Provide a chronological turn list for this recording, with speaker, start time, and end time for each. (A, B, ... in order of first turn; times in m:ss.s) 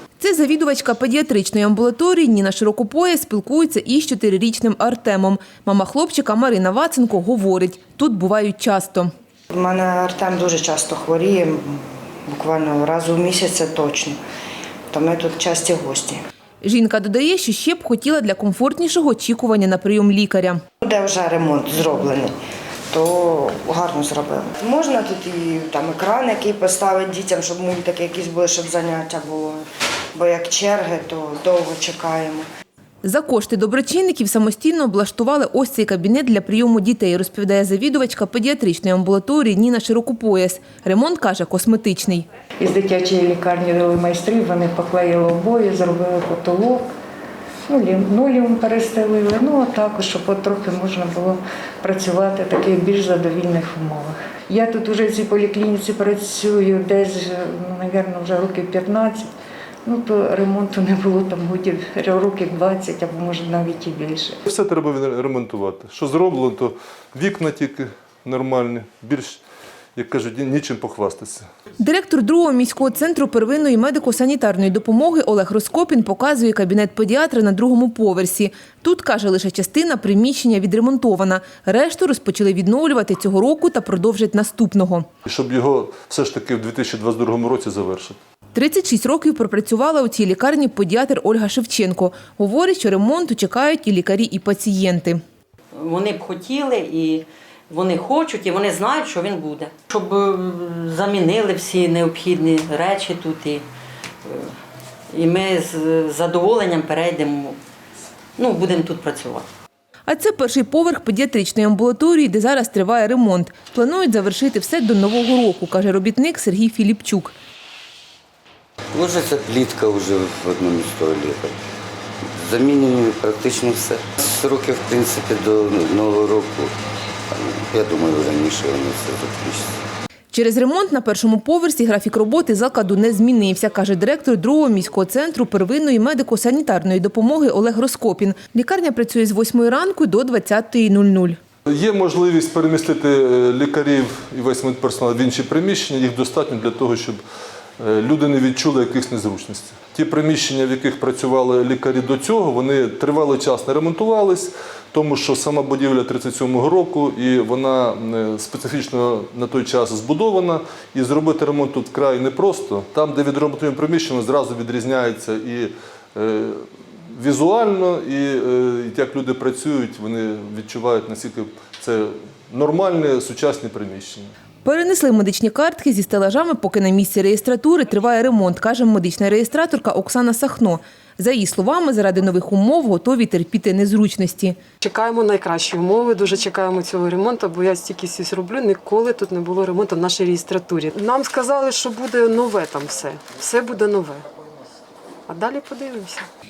0:00.2-0:09.1 A
0:09.5-0:14.2 B
0:14.9-0:16.2 B
0:16.6-0:20.6 A
0:20.8-0:22.3 B
0:22.9-0:29.6 B
0:30.2-0:32.4 B
0:33.0-0:42.2 A
0:42.6-0:46.8 C
0:47.7-0:59.3 C
0:59.9-1:04.4 C
1:04.5-1:09.4 D
1:10.0-1:11.5 D
1:11.8-1:25.1 A
1:25.3-1:28.2 D
1:28.6-1:35.2 A
1:35.8-1:43.7 E
1:44.2-1:44.5 E
1:45.1-1:47.6 E
1:48.4-1:49.5 E
1:50.1-1:57.4 A
1:58.9-2:01.6 F
2:02.3-2:06.7 F
2:07.3-2:09.8 F
2:10.3-2:21.4 A
2:21.7-2:27.2 D
2:27.8-2:54.3 D
2:54.6-3:04.6 A
3:04.8-3:14.2 G
3:15.3-3:16.3 G